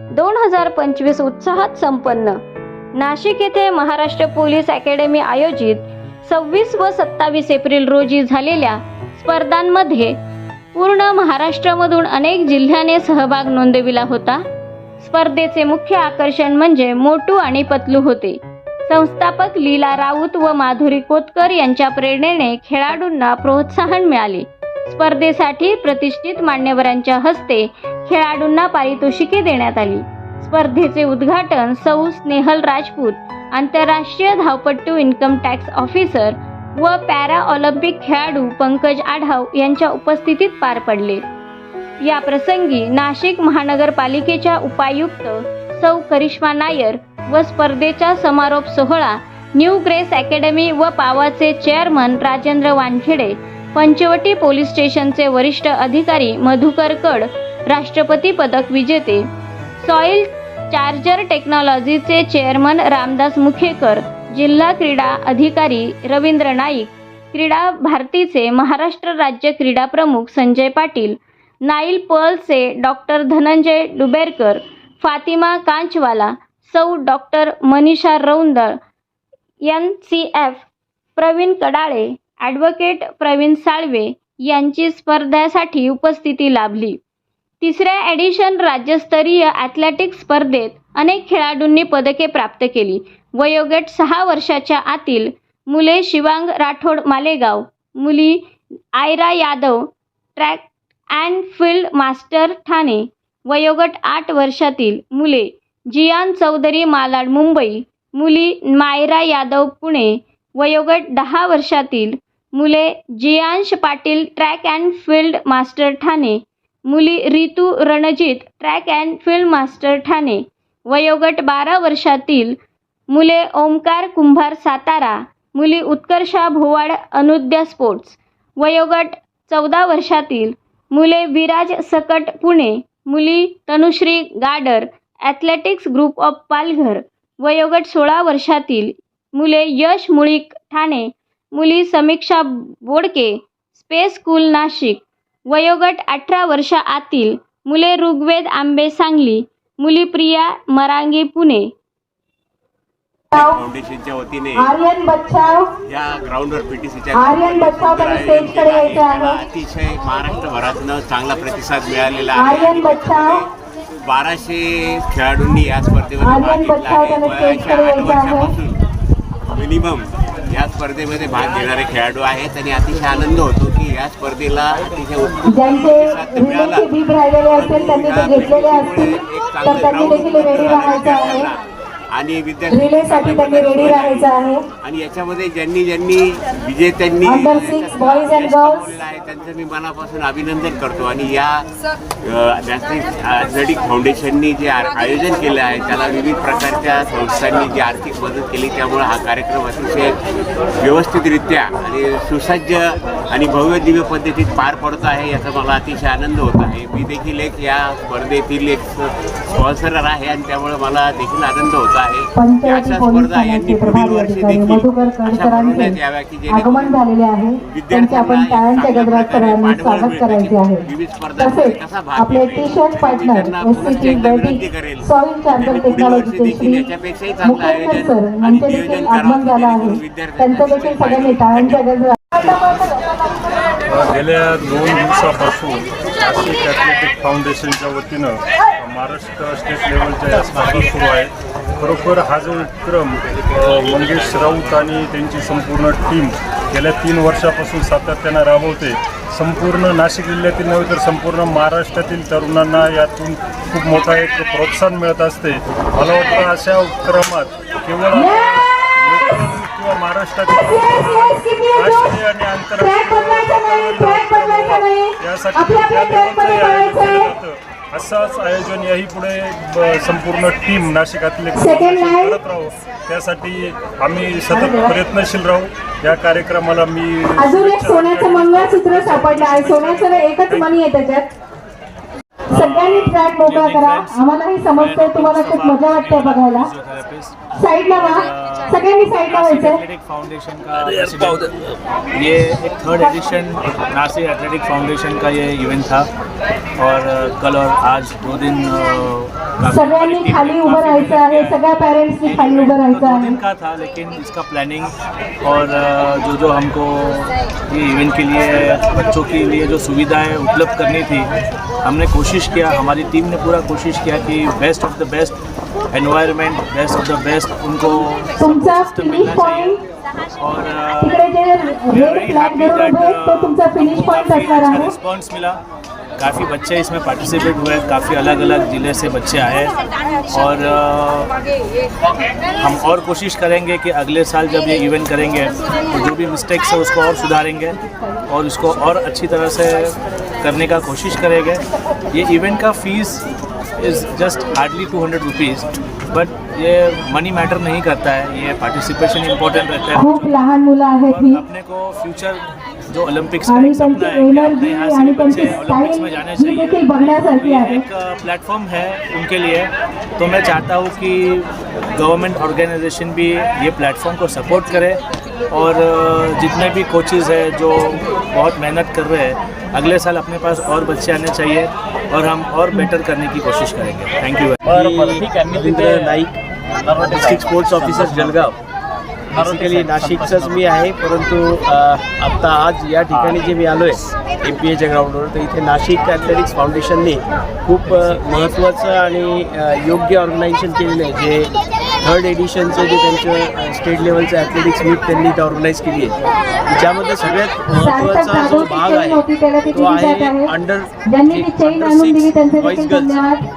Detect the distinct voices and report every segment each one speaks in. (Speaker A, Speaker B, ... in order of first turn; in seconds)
Speaker A: 0.1-2.4, 3.0-10.1, 10.7-14.4, 15.0-18.4, 18.9-41.2, 42.0-59.2, 59.8-71.1, 71.7-78.7, 79.7-80.7, 81.2-87.0, 87.6-98.4, 98.9-122.5, 123.1-151.7
Speaker B: 153.3-153.6, 154.6-155.7, 157.1-159.5, 162.3-163.4, 166.2-168.5, 175.5-181.5, 182.7-184.6, 187.2-188.9, 212.3-216.0, 216.5-220.8, 221.4-226.9, 227.4-232.9, 258.1-258.6, 260.5-262.2, 262.7-267.3, 271.5-272.4, 274.5-275.0, 277.4-281.3, 282.5-286.7, 287.6-289.8, 299.6-303.4, 318.4-319.8, 321.0-324.9, 349.9-351.4, 353.4-357.8, 397.8-400.5, 401.1-403.4
Speaker C: 153.3-154.7, 155.9-163.5, 164.0-168.8, 169.5-181.6, 182.1-191.7, 192.2-200.2, 200.8-217.1, 217.6-231.8
Speaker D: 233.9-280.8, 374.6-376.2, 376.8-377.9, 379.3-380.4
Speaker E: 282.5-287.3, 287.9-291.5, 292.1-296.1, 296.8-301.6, 302.2-311.3, 311.8-315.4, 315.9-319.8, 320.4-321.2, 321.9-325.6, 326.2-329.7, 330.3-331.3, 332.6-337.8, 338.3-343.2, 343.8-350.5, 351.1-365.0, 365.5-374.6, 377.7-378.3, 380.0-380.6
Speaker F: 374.7-376.3, 377.0-378.6, 379.3-396.1, 396.7-403.2